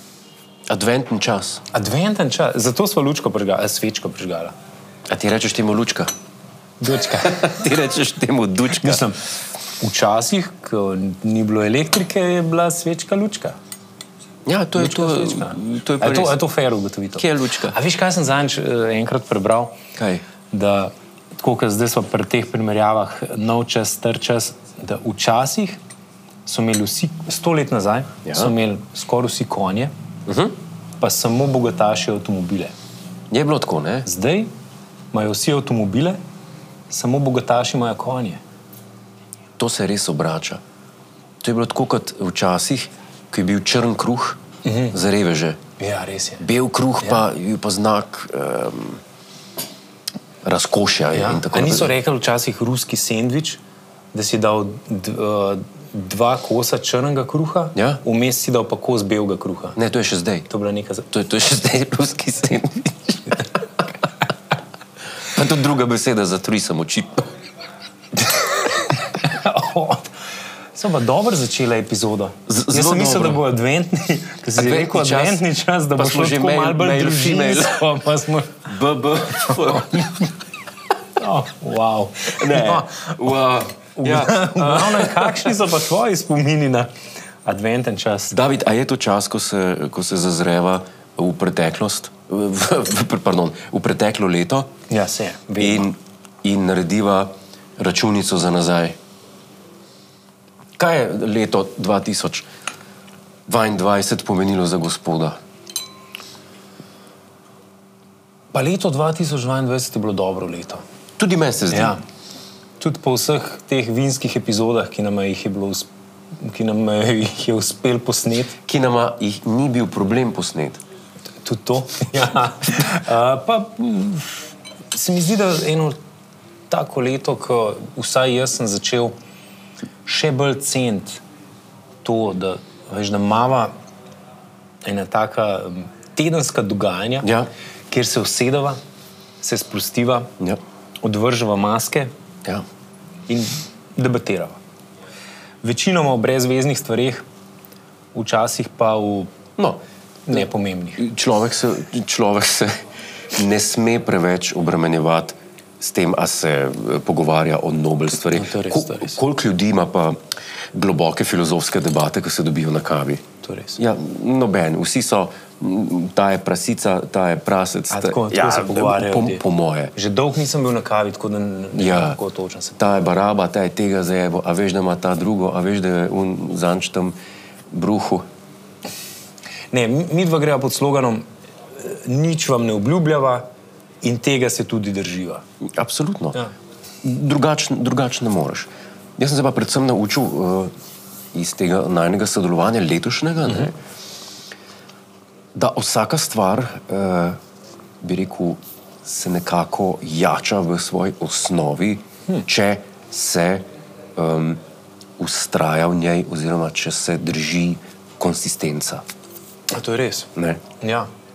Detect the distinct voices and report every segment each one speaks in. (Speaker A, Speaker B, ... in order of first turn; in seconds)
Speaker A: 0.7-1.6, 5.1-6.1, 7.2-9.0, 14.5-16.4, 17.1-17.8, 20.0-20.2, 28.2-28.5, 30.3-30.6, 33.3-34.1, 39.6-40.6, 41.4-45.6, 46.4-49.0, 50.4-51.9, 57.8-58.0, 59.8-60.5, 61.1-63.5, 65.3-67.3, 72.5-73.4, 74.5-78.0, 78.7-80.3, 82.3-85.5, 88.3-94.7, 95.6-99.0, 100.8-102.5, 103.5-105.4, 111.2-112.0, 118.7-120.8, 137.2-137.5, 151.0-152.8, 153.3-160.2, 160.7-163.2, 163.8-169.9, 171.8-172.2, 172.8-177.2, 177.7-178.2, 185.8-186.4, 187.0-190.7, 191.3-193.8, 195.6-197.4, 198.0-204.6, 205.2-209.1, 210.4-210.6
Speaker B: 1.7-4.5, 6.8-7.7, 8.7-9.2, 9.8-13.6, 14.8-19.7, 20.5-25.8, 26.5-29.9, 31.0-32.7, 34.0-34.5, 35.1-36.2, 36.9-38.4, 44.6-45.0, 45.8-46.5, 51.1-53.6, 54.1-59.8, 60.5-61.1, 68.2-70.1, 70.8-78.7, 79.5-80.1, 81.2-83.1, 84.0-86.9, 87.5-88.3, 94.9-95.9, 108.5-110.8, 111.7-112.0, 112.8-115.9, 116.4-118.6, 121.4-126.0, 126.7-129.1, 130.1-131.2, 132.0-133.7, 134.8-137.3, 137.9-138.8, 139.4-140.3, 141.0-142.1, 143.3-144.6, 145.6-147.2, 148.1-149.3, 150.3-151.0, 158.3-159.2, 163.4-163.8, 167.9-169.4, 169.9-172.8, 179.7-181.2, 181.8-183.4, 184.0-185.4, 209.7-211.1